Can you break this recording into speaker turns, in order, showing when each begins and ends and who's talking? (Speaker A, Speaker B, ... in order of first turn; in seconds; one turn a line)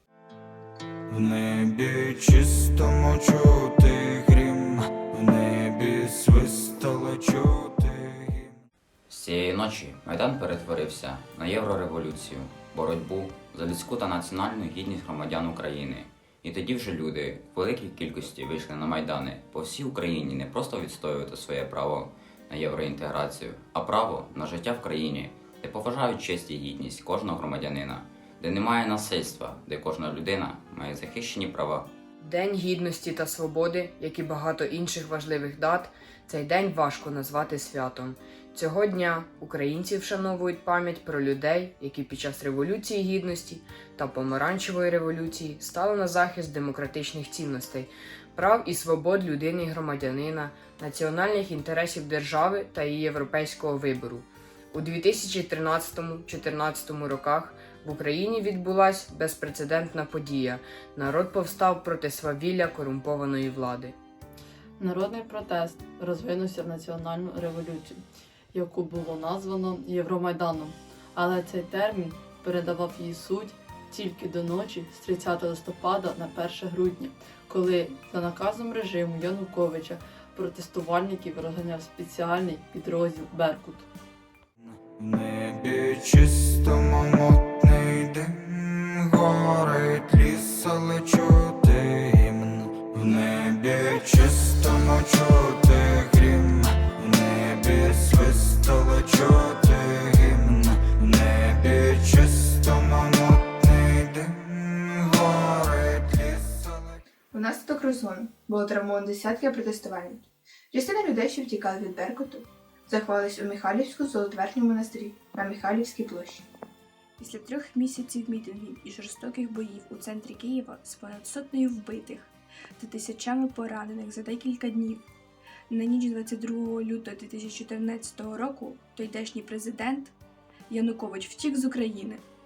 Speaker A: 1.1-8.6
Speaker B: 9.1-31.9
Speaker C: 32.2-64.0
Speaker D: 64.8-83.9
Speaker A: 84.6-107.0
Speaker E: 107.3-116.5
Speaker F: 117.2-125.0
Speaker F: 125.7-130.1
Speaker F: 130.7-132.2